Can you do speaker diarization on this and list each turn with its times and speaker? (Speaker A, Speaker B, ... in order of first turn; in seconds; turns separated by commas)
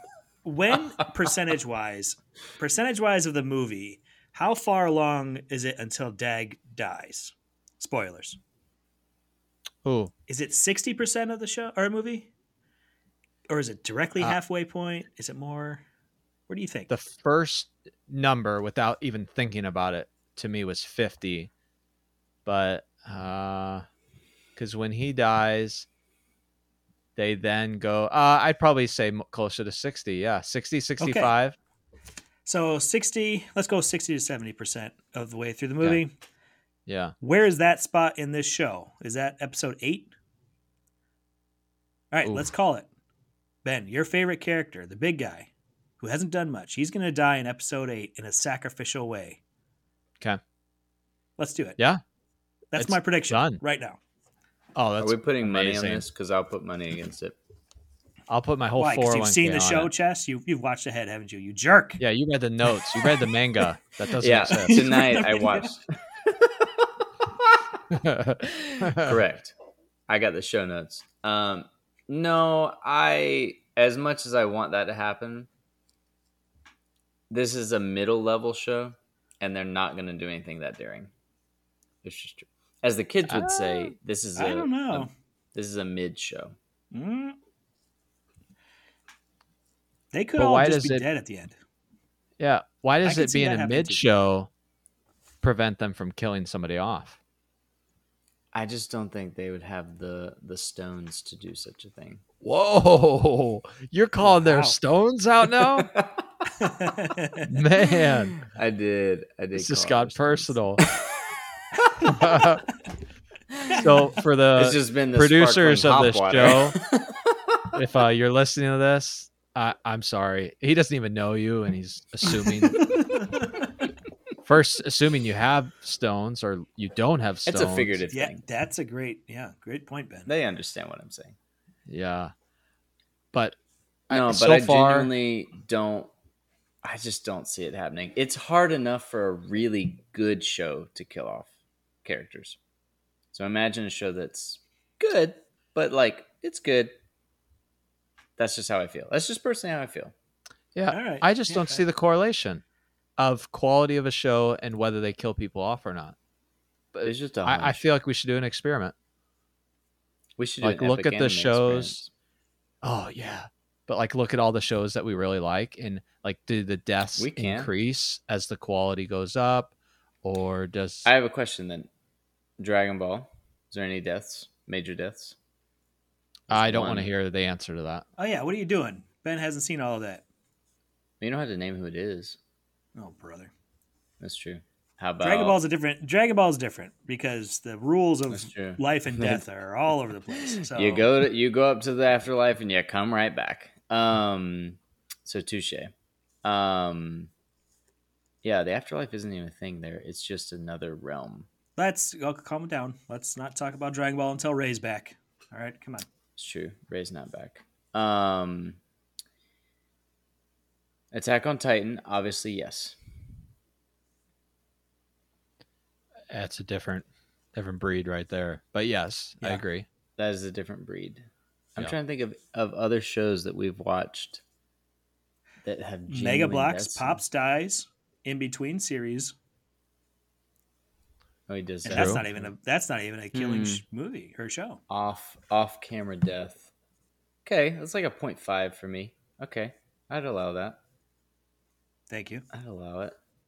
Speaker A: 0.4-8.4, Speaker B: 9.8-10.1, Speaker A: 10.3-12.3, Speaker A: 13.5-15.8, Speaker A: 16.5-16.9, Speaker B: 16.9-21.5, Speaker B: 22.4-23.8, Speaker B: 24.6-25.9, Speaker B: 27.1-31.6, Speaker A: 31.0-31.3, Speaker A: 32.5-36.1, Speaker B: 36.9-37.1, Speaker A: 37.2-40.1, Speaker A: 42.1-42.9, Speaker A: 43.6-45.5, Speaker A: 46.0-49.4, Speaker A: 51.4-51.8, Speaker A: 52.7-54.0, Speaker B: 52.7-53.6, Speaker B: 54.8-56.0, Speaker C: 55.0-57.4, Speaker B: 58.3-59.9, Speaker A: 58.8-62.0, Speaker B: 62.0-64.9, Speaker A: 62.8-63.1, Speaker C: 64.2-67.6, Speaker A: 64.5-65.7, Speaker B: 67.9-69.2, Speaker C: 68.5-69.5, Speaker C: 70.1-75.5, Speaker C: 77.3-81.1, Speaker C: 82.0-86.5, Speaker B: 83.3-83.9, Speaker A: 84.4-85.1, Speaker A: 86.9-87.4, Speaker A: 90.1-91.5, Speaker B: 90.4-91.0, Speaker B: 92.4-94.5, Speaker A: 93.0-94.0, Speaker B: 95.4-97.2, Speaker C: 98.5-102.2, Speaker B: 102.4-105.9, Speaker A: 104.2-104.8, Speaker C: 105.7-106.5, Speaker A: 106.6-107.5, Speaker B: 107.5-108.4, Speaker C: 108.0-111.3, Speaker B: 109.5-110.8, Speaker B: 112.1-112.6, Speaker C: 113.5-113.8, Speaker B: 113.7-116.8, Speaker C: 114.5-117.6, Speaker B: 117.7-122.9, Speaker B: 124.4-128.0, Speaker C: 127.5-128.4, Speaker A: 128.1-130.3, Speaker C: 130.3-131.3, Speaker B: 131.9-132.3, Speaker B: 134.1-135.1, Speaker C: 134.1-136.1, Speaker C: 136.8-142.6, Speaker C: 143.3-146.9, Speaker C: 148.4-150.1, Speaker B: 150.7-152.6, Speaker A: 150.9-151.8, Speaker B: 153.2-156.1, Speaker B: 156.9-158.9, Speaker C: 157.0-157.8, Speaker C: 160.4-162.1, Speaker B: 160.6-162.0, Speaker B: 162.8-169.7, Speaker C: 167.2-167.7, Speaker B: 170.2-171.1, Speaker C: 171.1-171.9, Speaker C: 172.6-175.4, Speaker C: 176.5-177.1, Speaker B: 176.5-178.0, Speaker A: 178.2-180.2, Speaker C: 181.2-182.4, Speaker A: 182.9-183.5, Speaker C: 184.2-185.6, Speaker A: 185.2-191.1, Speaker C: 188.3-189.4, Speaker C: 190.5-195.9, Speaker C: 196.4-197.3, Speaker C: 198.4-201.5, Speaker A: 201.8-206.1, Speaker C: 206.4-208.8, Speaker C: 211.1-213.0, Speaker B: 216.3-219.9, Speaker C: 220.2-224.4, Speaker C: 225.6-227.2, Speaker A: 226.1-229.3, Speaker C: 231.5-232.5, Speaker B: 231.9-232.2, Speaker A: 231.9-234.8, Speaker C: 233.3-233.8, Speaker C: 234.9-236.7, Speaker C: 237.4-240.8, Speaker A: 242.1-242.4, Speaker C: 242.5-243.2